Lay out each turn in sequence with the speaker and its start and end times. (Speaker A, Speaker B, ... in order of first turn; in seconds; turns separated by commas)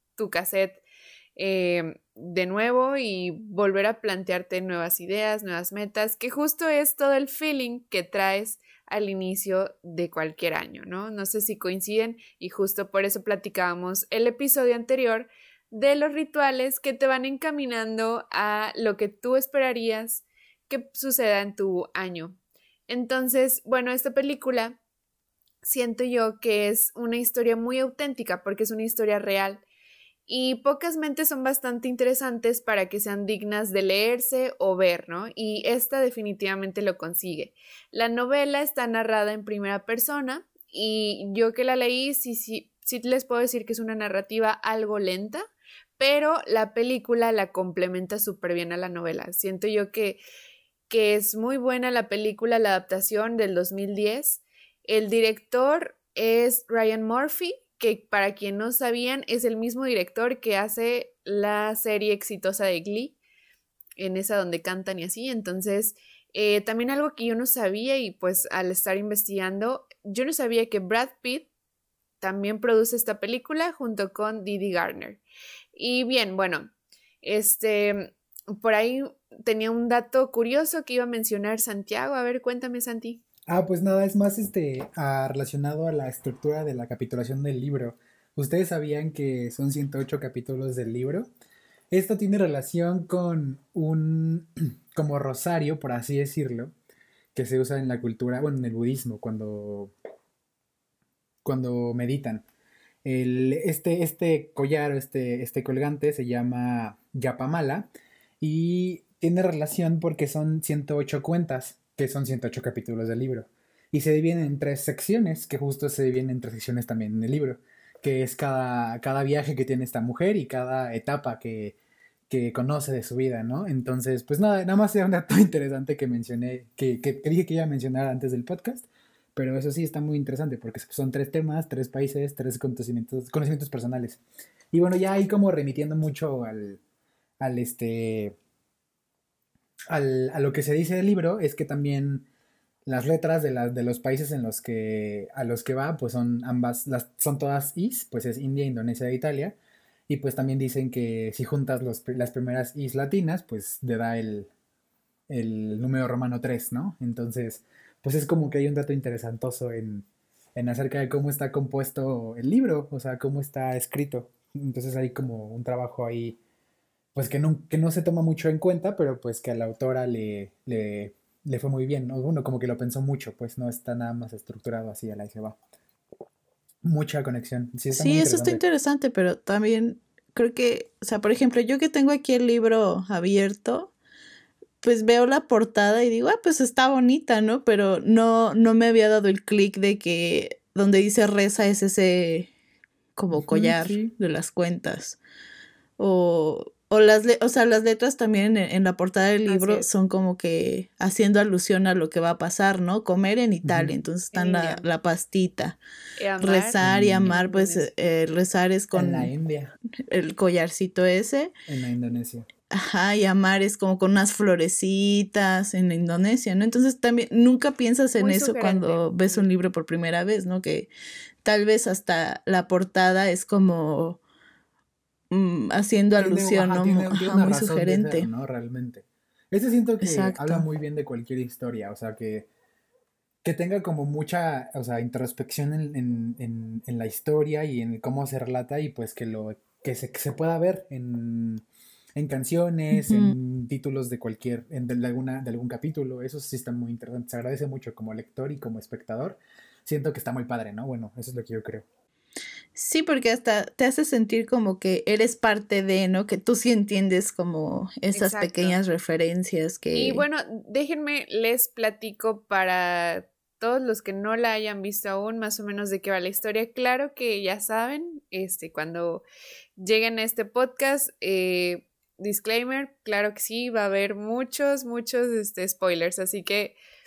Speaker A: 0.2-0.8, Speaker A: 1.4-22.4, Speaker A: 22.9-24.8, Speaker A: 25.6-29.6, Speaker A: 30.3-45.5, Speaker A: 46.0-50.2, Speaker A: 50.9-63.2, Speaker A: 64.0-71.5, Speaker A: 72.2-75.2, Speaker A: 75.7-76.7, Speaker A: 77.2-83.2, Speaker B: 83.5-91.3, Speaker B: 91.9-96.7, Speaker B: 97.3-99.9, Speaker B: 101.4-102.4, Speaker B: 103.0-121.8, Speaker B: 122.3-134.2, Speaker B: 134.7-136.8, Speaker B: 137.4-138.3, Speaker B: 139.9-142.2, Speaker B: 142.8-149.6, Speaker B: 150.1-154.5, Speaker B: 155.3-166.4, Speaker B: 167.1-175.6, Speaker B: 176.8-178.6, Speaker C: 177.9-183.9, Speaker C: 184.8-192.5, Speaker C: 193.2-195.2, Speaker B: 193.3-194.1, Speaker C: 196.0-205.8, Speaker A: 199.5-199.9, Speaker B: 203.6-204.0, Speaker A: 204.3-204.8, Speaker A: 206.2-207.9, Speaker C: 206.4-209.3, Speaker B: 206.8-207.3, Speaker B: 208.9-209.7, Speaker C: 210.1-211.5, Speaker B: 211.7-212.4, Speaker C: 212.7-220.9, Speaker A: 218.2-219.4, Speaker C: 221.4-224.2, Speaker C: 225.3-228.3, Speaker B: 226.2-232.5, Speaker C: 230.0-230.7, Speaker B: 233.4-241.6, Speaker B: 242.2-251.8, Speaker C: 242.9-243.3, Speaker C: 252.8-260.2, Speaker A: 258.1-258.8, Speaker A: 259.9-269.2, Speaker A: 269.8-276.8